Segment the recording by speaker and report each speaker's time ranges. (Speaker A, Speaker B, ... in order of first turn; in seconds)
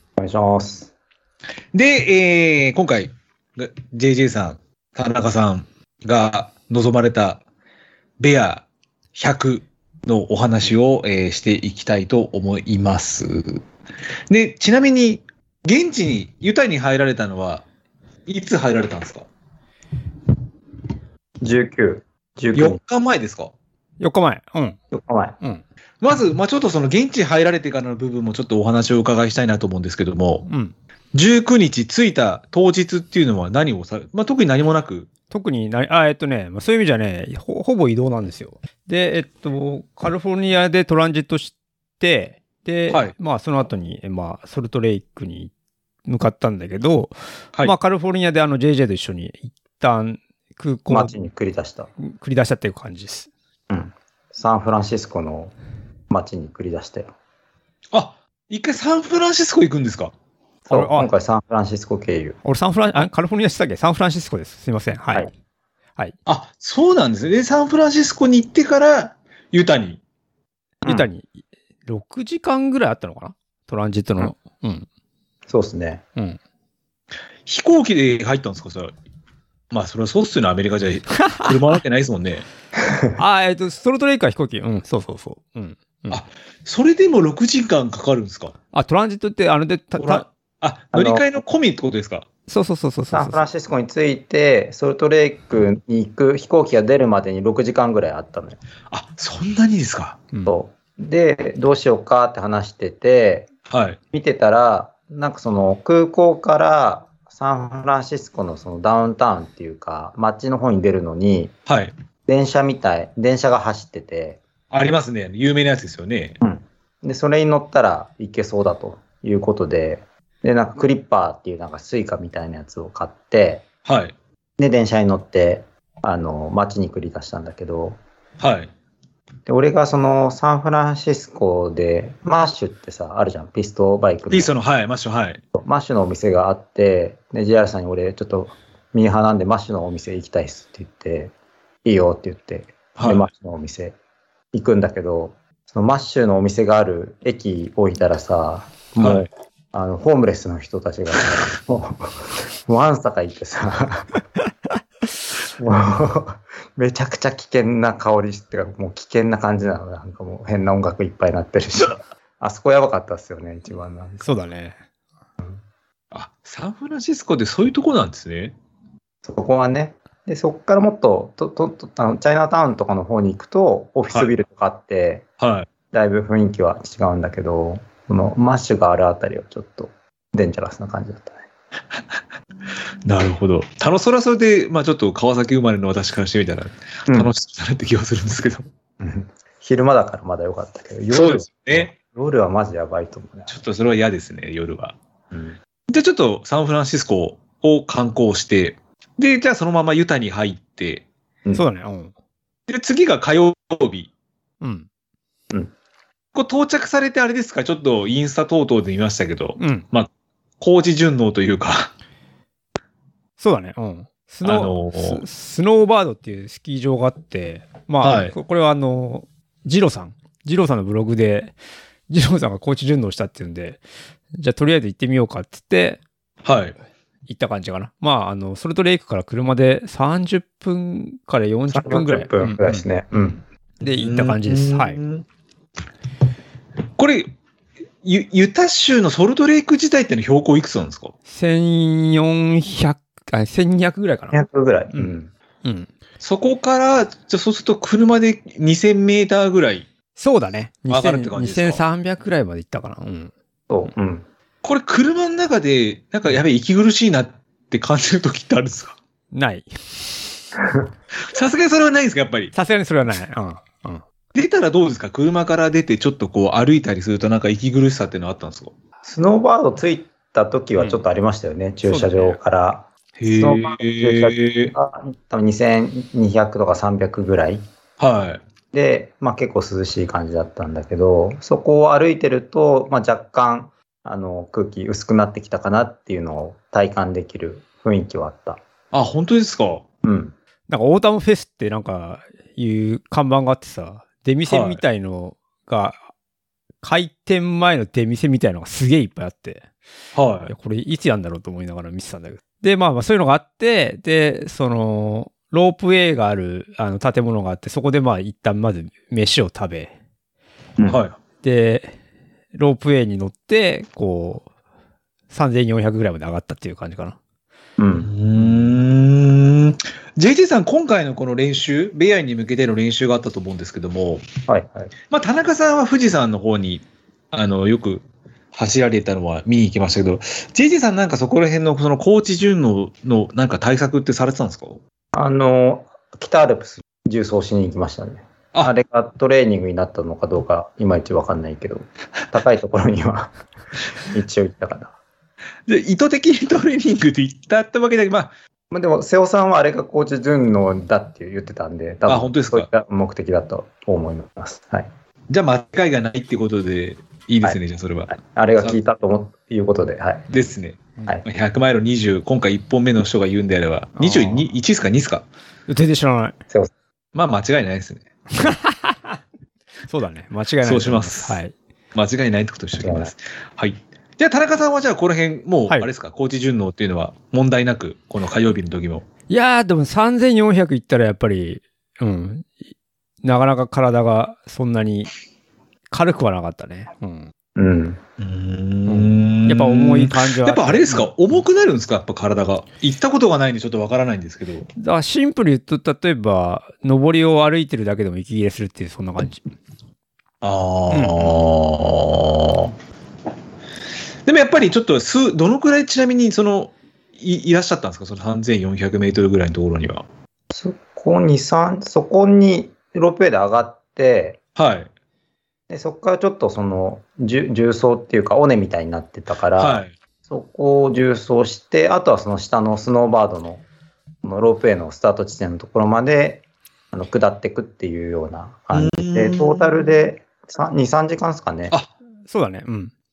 Speaker A: 0.2-0.9, 21.4-22.8, 24.9-25.4, 50.9-51.9, 53.7-55.5, 56.1-57.1, 60.7-62.4, 75.5-76.0, 82.9-83.2, 90.9-91.2, 93.1-98.6, 100.5-103.5, 104.1-111.5, 112.3-114.4, 116.4-123.7, 124.6-128.0, 129.5-134.5, 135.6-141.3, 141.8-144.0, 144.5-154.2, 155.5-164.2, 169.2-175.3, 175.9-181.5, 189.0-193.5, 195.3-195.6, 231.7-233.4, 244.3-245.3, 253.7-254.3, 269.0-277.7, 278.7-288.6, 290.0-290.4, 317.8-318.1, 324.5-324.9, 335.1-343.4, 344.0-345.0, 348.7-354.9, 358.1-360.3, 372.8-373.1, 387.6-388.0, 410.5-414.4, 415.7-423.6, 424.2-431.7
Speaker B: 1.7-7.4, 8.2-13.6, 14.3-17.7, 18.3-19.3, 22.5-23.5, 26.0-30.5, 31.1-35.1, 57.9-60.1, 66.3-70.0, 77.5-78.9, 79.7-82.5, 86.1-88.5, 90.0-92.3, 98.9-100.2, 103.7-104.0, 111.7-111.9, 114.7-116.4, 123.8-124.1, 128.4-128.7, 134.3-135.4, 143.0-143.2, 149.0-149.3, 166.1-168.6, 175.4-175.7, 183.1-188.7, 191.1-191.9, 193.5-195.0, 195.9-201.1, 202.7-204.1, 206.3-210.1, 210.6-211.9, 214.4-215.2, 218.0-218.4, 226.4-226.8, 233.8-235.2, 237.0-237.3, 238.0-241.1, 246.2-249.9, 250.9-251.8, 254.6-259.0, 261.2-262.5, 264.3-268.7, 273.2-274.8, 278.0-278.4, 288.9-289.8, 294.5-294.8, 300.1-300.5, 310.9-311.2, 318.0-324.3, 325.1-334.8, 345.7-348.3, 352.1-352.7, 355.3-358.8, 360.3-365.3, 367.1-368.1, 370.6-371.4, 371.9-379.1, 388.2-394.7, 400.4-402.7, 404.3-410.1, 414.6-414.9, 419.6-419.9, 428.7-429.7
Speaker C: 24.0-24.8, 30.5-30.8, 35.3-45.5, 46.1-51.1, 52.0-53.3, 60.7-61.1, 62.4-65.3, 70.8-74.9, 83.2-86.2, 88.7-90.2, 92.5-93.4, 164.2-164.8, 201.6-202.1, 204.6-204.9, 209.6-209.8, 213.4-221.6, 222.1-223.8, 224.4-226.0, 227.3-232.8, 233.8-235.0, 241.3-244.4, 245.6-245.9, 250.2-253.3, 259.3-260.2, 262.5-264.0, 271.9-272.3, 290.7-296.0, 296.8-299.6, 300.5-309.9, 311.4-311.9, 312.6-314.5, 315.3-317.2, 364.0-364.4, 365.7-366.4, 368.4-369.2, 369.9-371.5, 379.3-382.5, 383.2-385.1, 385.9-387.3, 388.9-391.1, 394.8-399.4, 400.9-401.3, 432.3-432.9